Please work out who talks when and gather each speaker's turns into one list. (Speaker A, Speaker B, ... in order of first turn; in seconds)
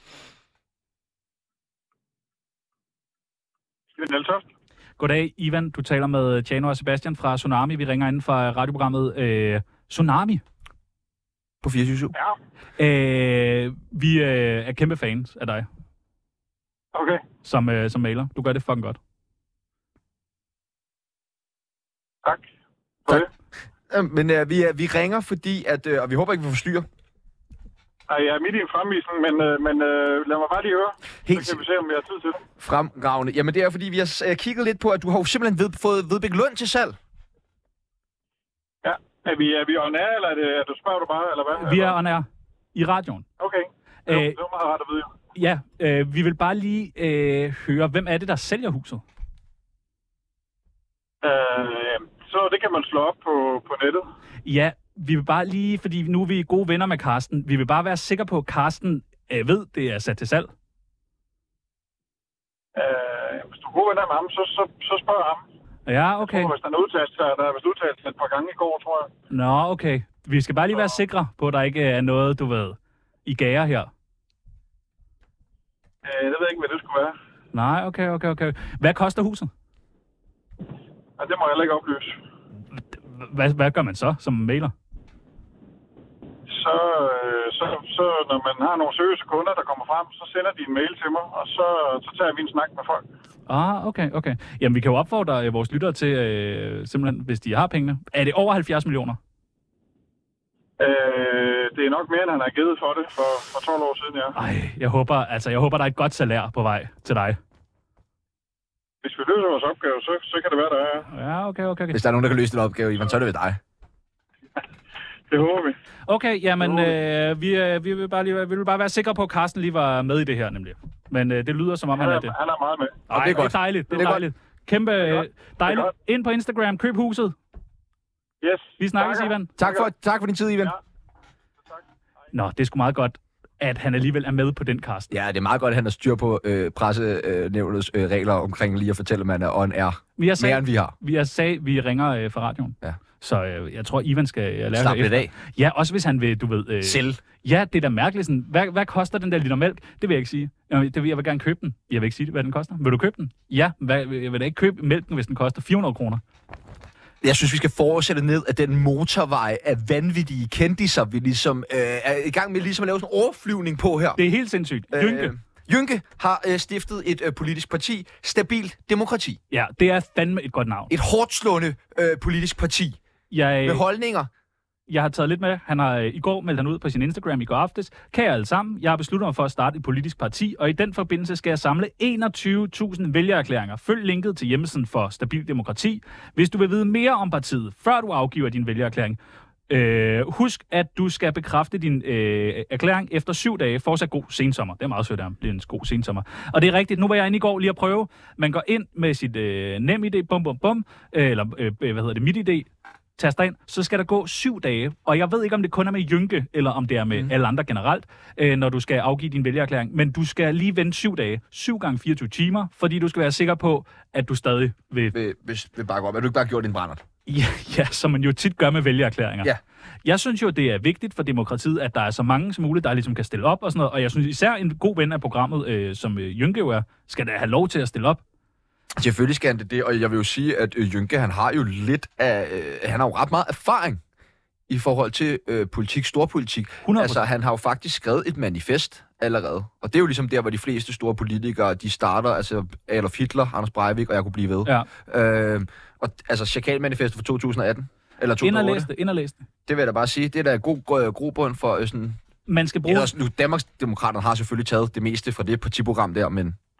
Speaker A: 4.0-4.5, 16.9-17.2, 28.1-32.4, 38.8-42.0, 43.4-45.1, 51.2-54.1, 62.8-65.4, 66.2-69.1, 76.0-77.2, 81.2-82.2, 86.5-93.0, 100.8-104.3, 109.0-111.1, 115.3-115.8, 122.0-123.0, 125.1-125.9, 128.4-129.9
Speaker B: 5.0-10.4, 12.8-15.7, 17.4-19.0, 41.6-43.3, 44.1-44.4, 45.4-49.0, 54.5-60.5, 65.9-66.5, 69.3-73.9, 77.5-79.5, 82.8-84.7, 93.5-99.2, 104.4-107.4, 111.1-112.0, 116.1-122.3, 123.1-127.3, 128.8-129.6, 132.3-135.1, 140.2-156.2, 164.2-165.3, 169.5-170.9, 173.3-173.8, 174.9-189.2, 189.7-215.2, 217.3-219.5, 220.1-228.2, 236.9-237.2, 248.4-249.4, 252.5-253.1
Speaker C: 11.6-12.1, 23.9-26.9, 31.3-31.6, 32.6-37.0, 111.9-113.6, 123.1-124.2, 129.6-130.7, 135.1-140.9, 144.8-145.3, 146.8-147.2, 157.2-164.2, 164.9-169.4, 170.9-173.0, 173.7-174.3, 215.1-217.0, 229.0-234.0, 234.7-248.9, 249.7-252.2, 252.9-256.6